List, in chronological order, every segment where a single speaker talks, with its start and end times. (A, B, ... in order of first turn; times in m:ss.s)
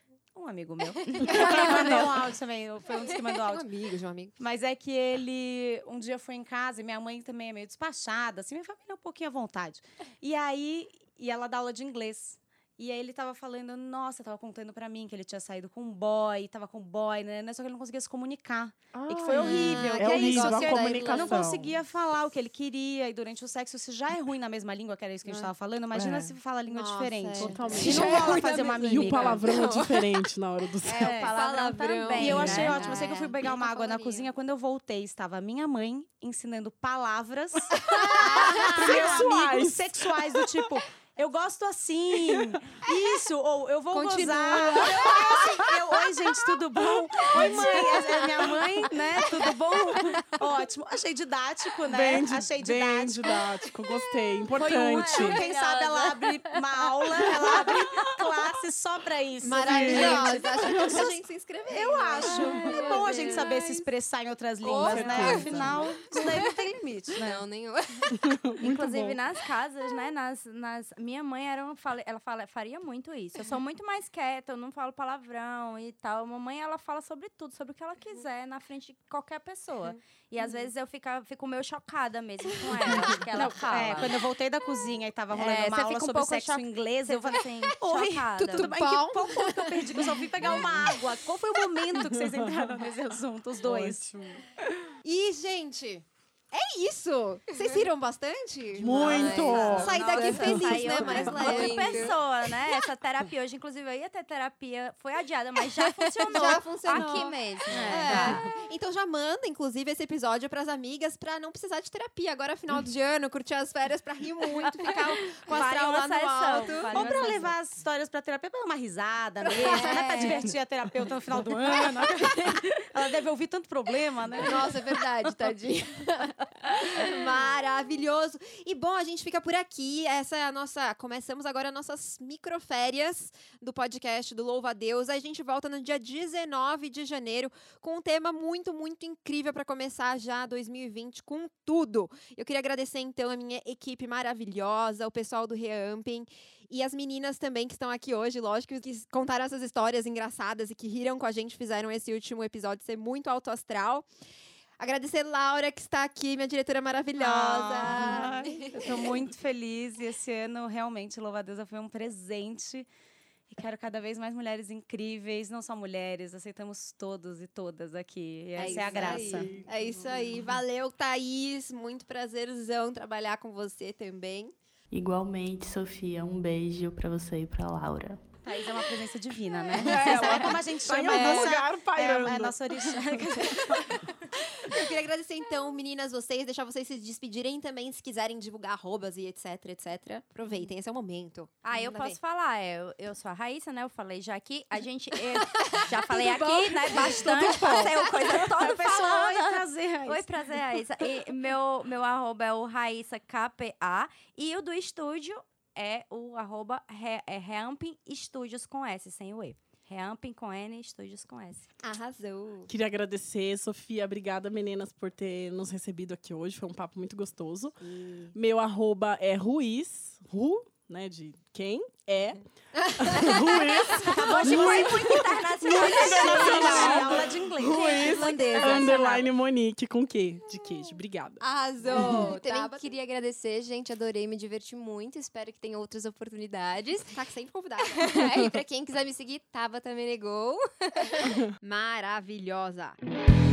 0:00.3-0:03.6 A
0:01.0-0:02.1 B
0:01.2-0:02.2 C
0:01.4-0:01.7 D
0:03.5-0:04.3 C
0:04.4-0:29.4 A
0:18.9-0:21.8 D
0:19.4-0:21.4 C
0:25.9-0:26.3 D
0:26.7-0:30.1 C
0:27.3-0:31.2 D
0:30.8-0:34.2 C
0:30.9-0:33.2 B
0:31.0-0:31.3 A
0:32.1-0:53.2 A
0:32.3-0:32.7 D
0:37.9-0:39.2 C
0:38.0-0:40.4 D
0:43.9-0:45.7 C
0:46.8-0:48.0 D
0:47.4-0:48.6 C
0:48.8-0:50.3 B
0:51.9-0:55.4 D
0:54.6-1:01.0 A
0:54.8-0:56.5 B
0:54.9-0:56.0 C
0:59.4-1:03.8 C
0:59.5-1:01.0 D
1:01.7-1:07.4 A
1:04.6-1:06.4 C
1:04.6-1:06.0 D
1:07.2-1:08.1 E
1:08.3-1:09.2 D
1:08.6-1:24.2 B
1:23.3-1:34.1 A
1:25.3-1:28.7 B
1:28.4-1:30.1 C
1:30.4-1:30.9 D
1:32.0-1:32.5 D
1:33.6-1:34.4 D
1:35.0-1:42.2 C
1:38.8-1:41.6 D
1:39.0-1:48.5 B
1:39.5-1:41.3 A
1:41.6-1:42.0 E
1:46.2-1:57.4 C
1:54.6-1:57.6 B
1:56.9-2:05.3 A
1:59.5-2:00.5 C
1:59.6-2:00.3 B
2:04.4-2:34.0 C
2:34.8-2:38.8 C
2:37.2-2:42.9 A
2:43.5-2:49.5 A
2:48.6-2:54.5 C
2:48.9-2:50.0 D
2:54.9-2:58.2 F
2:58.4-3:03.9 A
2:59.7-3:03.7 D
2:59.9-3:00.3 B
3:01.1-3:01.6 C
3:04.5-3:12.2 C
3:11.6-3:31.7 B
3:15.6-3:18.4 C
3:17.3-3:17.9 D
3:18.1-3:21.1 A
3:31.8-3:32.7 C
3:32.7-3:37.8 D
3:38.0-3:38.3 C
3:38.3-3:42.4 D
3:42.8-3:44.1 C
3:42.9-3:52.4 D
3:43.9-3:48.3 A
3:44.3-3:49.3 B
3:45.9-3:47.1 C
3:48.0-3:49.0 C
3:51.4-3:52.8 C
3:51.8-3:57.1 E
3:57.0-3:58.4 C
3:58.0-4:01.2 E
4:01.2-4:03.0 C